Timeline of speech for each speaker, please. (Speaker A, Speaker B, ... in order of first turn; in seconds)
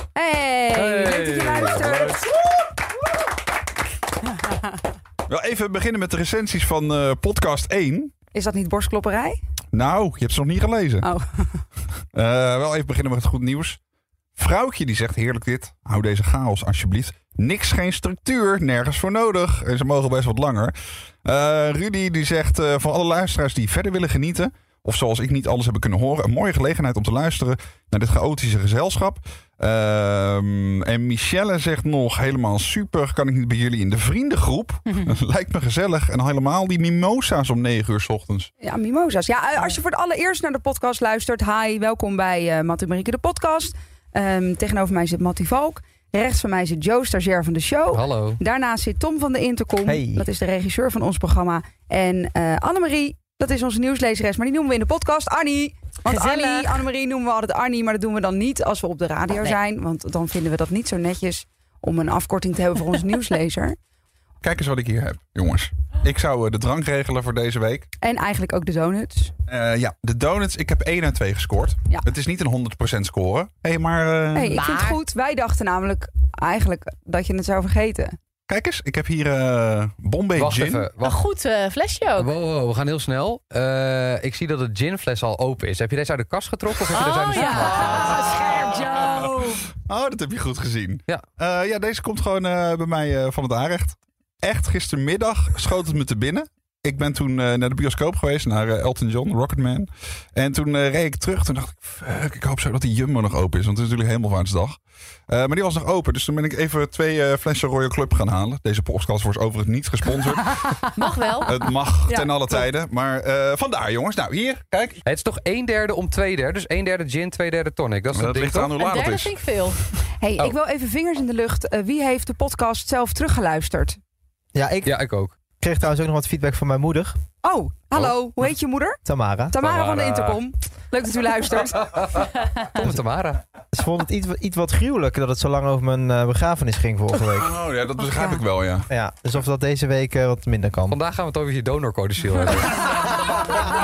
Speaker A: 0.1-2.3, 8.3-9.4, 11.0-11.5, 38.6-63.8, 68.0-69.3, 74.3-78.2, 87.3-89.6, 120.2-124.0, 127.4-132.0
Speaker B: 0.7-2.2, 47.9-48.4, 80.4-81.2, 82.2-88.3, 115.0-118.7, 124.8-125.3, 129.6-130.4, 131.8-133.4, 140.9-143.0
Speaker C: 5.3-8.1, 9.7-11.1, 12.1-13.8, 14.4-38.5, 64.4-67.9, 69.5-74.6, 78.5-80.9, 89.8-104.8, 105.3-110.8, 111.5-115.0, 118.1-119.4, 137.4-138.9
Speaker D: 49.9-50.3, 124.5-125.0, 125.6-127.2, 129.1-129.6, 133.7-137.6, 138.9-141.0
Speaker E: 56.1-56.8, 74.5-75.0, 81.0-82.3, 86.9-89.3, 111.0-111.5, 118.7-119.8